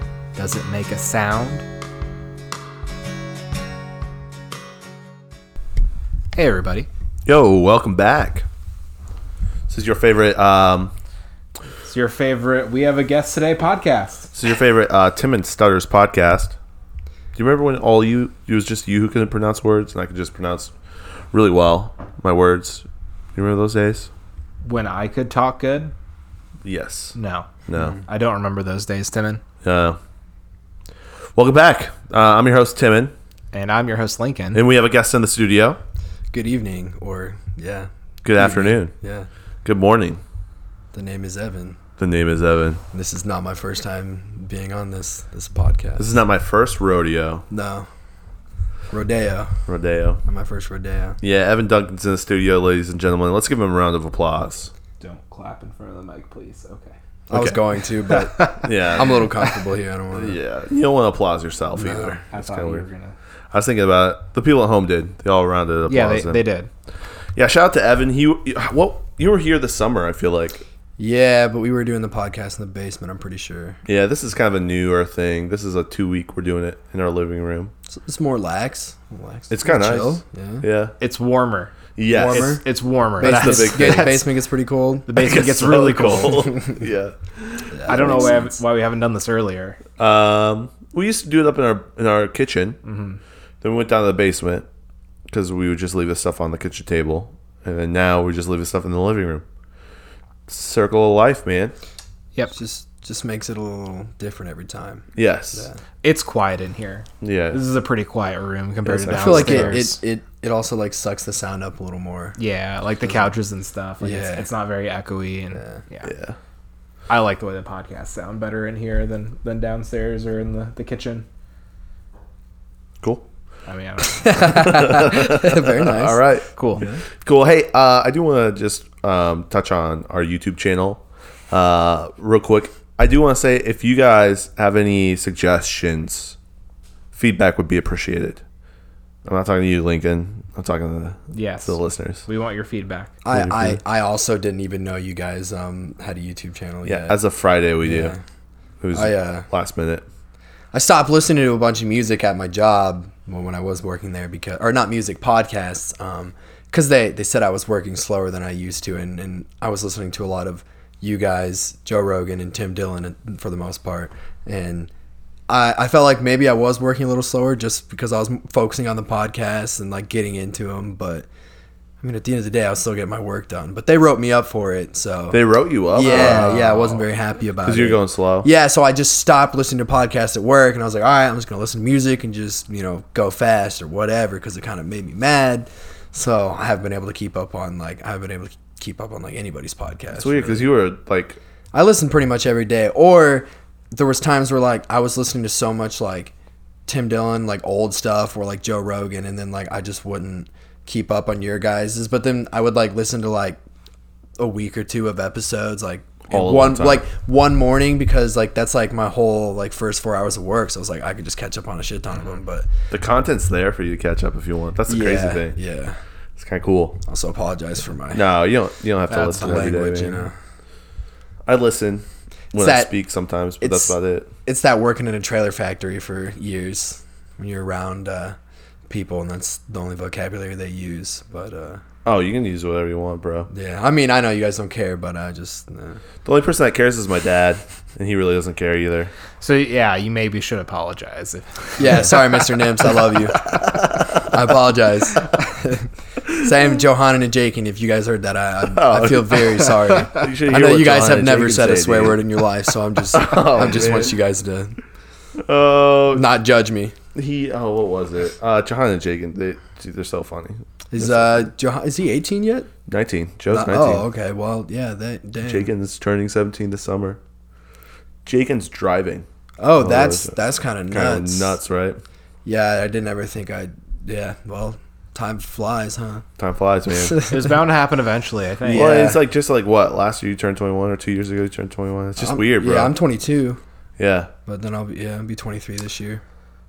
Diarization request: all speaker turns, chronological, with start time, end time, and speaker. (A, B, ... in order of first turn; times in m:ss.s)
0:00.4-0:01.6 A
0:06.3-0:06.9 A
0:07.2-0:08.4 B
0:09.7-0:10.9 B
0:11.8-0:14.3 A
0:14.3-0:16.6 B
0:17.3-0:20.7 B
0:21.3-0:24.1 B
0:24.6-0:25.9 A
0:26.6-0:27.1 B
0:27.1-0:29.4 A
0:27.7-0:28.0 B
0:29.6-0:30.0 B
0:31.4-0:33.1 B
0:33.5-0:34.6 A
0:34.5-0:35.8 B
0:36.3-0:39.3 C
0:38.2-0:38.9 B
0:39.6-0:40.2 B
0:40.9-0:41.8 C
0:42.0-0:42.8 B
0:42.9-0:46.1 C
0:46.0-0:47.4 B
0:47.5-0:47.9 C
0:48.9-0:49.5 C
0:49.7-0:50.2 B
0:50.2-0:51.2 C
0:51.2-0:54.7 B
0:55.0-0:56.9 A
0:57.3-1:00.4 C
0:58.0-0:58.7 A
0:58.6-0:59.3 B
1:00.1-1:02.8 B
1:01.7-1:02.2 C
1:02.3-1:03.1 A
1:03.5-1:06.4 B
1:05.9-1:06.7 A
1:07.4-1:10.6 B
1:11.0-1:13.8 C
1:13.8-1:17.7 B
1:17.9-1:20.6 C
1:19.5-1:20.9 B
1:21.0-1:21.8 A
1:22.0-1:22.6 B
1:22.1-1:22.6 C
1:22.3-1:24.2 A
1:23.2-1:24.2 B
1:23.2-1:25.1 C
1:25.1-1:26.6 A
1:25.2-1:28.4 B
1:26.2-1:26.8 C
1:27.7-1:28.6 C
1:27.9-1:29.8 A
1:30.0-1:32.8 B
1:32.8-1:33.2 A
1:33.6-1:34.6 B
1:35.3-1:39.4 B
1:40.5-1:41.7 B
1:42.5-1:45.8 C
1:45.2-1:45.7 B
1:46.0-1:50.0 A
1:47.2-1:47.6 B
1:48.8-1:49.8 B
1:49.1-1:52.3 C
1:52.4-1:56.1 A
1:54.0-1:54.4 C
1:56.0-1:56.4 B
1:57.1-2:01.2 A
2:03.7-2:04.8 A
2:04.1-2:06.2 C
2:04.5-2:16.4 B
2:06.6-2:06.8 A
2:06.8-2:07.0 C
2:17.1-2:18.4 B
2:19.2-2:22.2 B
2:21.3-2:23.1 A
2:23.2-2:27.2 C
2:23.3-2:23.8 B
2:26.8-2:28.1 B
2:27.8-2:28.2 C
2:28.8-2:30.0 B
2:28.9-2:29.4 C
2:30.7-2:44.9 C
2:45.5-2:51.3 C
2:52.0-2:55.4 C
2:55.3-2:57.0 B
2:55.9-3:10.7 C
2:56.1-2:56.7 A
2:57.6-2:58.5 B
3:10.2-3:11.4 B
3:11.7-3:16.3 C
3:16.9-3:23.6 C
3:24.4-3:32.7 C
3:26.3-3:27.0 B
3:32.9-3:35.6 B
3:34.9-3:36.0 C
3:36.4-3:37.0 B
3:37.0-3:38.2 C
3:38.1-3:40.3 B
3:39.1-3:39.4 A
3:39.1-3:40.3 C
3:41.4-3:44.3 B
3:42.6-3:42.9 C
3:43.6-3:43.9 C
3:44.4-3:48.4 C
3:48.9-3:51.8 C
3:52.0-3:53.5 B
3:53.5-3:56.0 C
3:56.2-3:59.1 B
3:59.4-4:02.8 A
4:01.8-4:14.8 C
4:03.4-4:04.4 B
4:08.7-4:12.3 B
4:13.1-4:14.2 B
4:15.4-4:16.3 B
4:16.1-4:16.9 C
4:17.1-4:21.4 B
4:20.9-4:22.7 C
4:22.9-4:24.0 B
4:23.5-4:25.7 C
4:25.4-4:27.2 B
4:28.2-4:29.2 B
4:29.6-4:31.6 C
4:29.8-4:30.4 B
4:30.9-4:32.0 B
4:32.4-4:36.2 C
4:36.4-4:37.2 B
4:36.9-4:37.4 C
4:37.2-4:39.2 A
4:38.7-4:42.9 B
4:38.7-4:39.1 C
4:42.2-4:43.6 C
4:44.0-4:44.3 B
4:44.4-4:46.2 C